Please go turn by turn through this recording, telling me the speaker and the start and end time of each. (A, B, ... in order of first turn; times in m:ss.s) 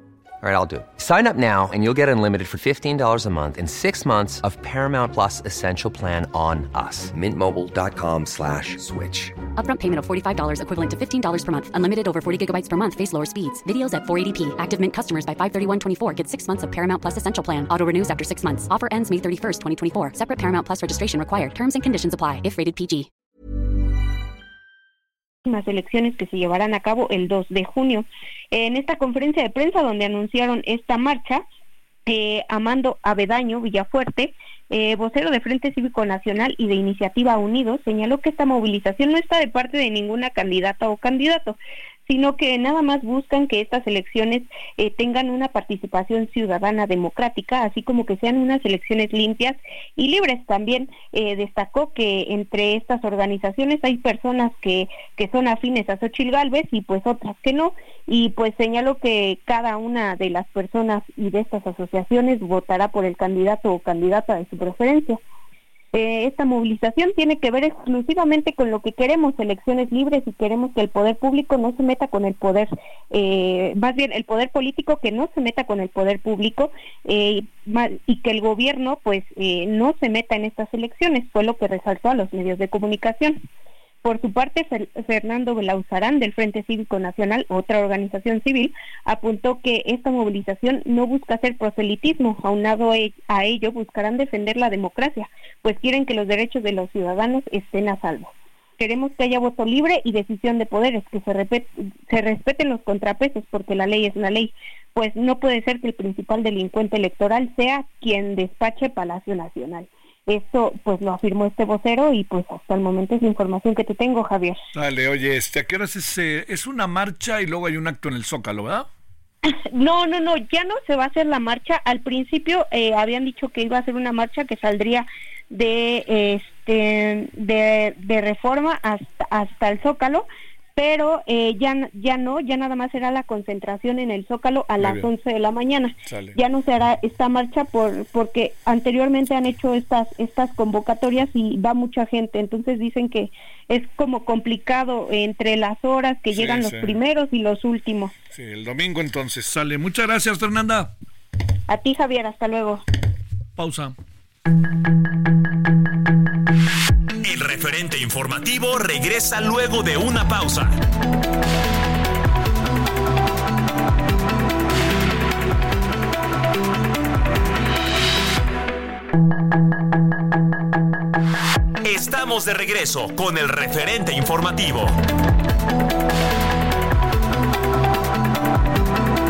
0:00.4-0:09.3 A
0:09.6-0:23.1 B
0:25.4-0:31.4 C
0:32.0-1:05.2 C
1:05.9-1:23.4 C
1:24.0-1:54.6 C
1:54.7-1:58.9 D
1:59.4-2:28.1 C
2:14.8-2:15.1 D
2:16.0-2:16.4 D
2:26.3-2:27.0 D
2:28.3-2:30.9 D
2:31.7-2:32.8 C
2:33.6-2:33.9 D
2:37.2-2:40.8 E
2:51.8-2:55.0 E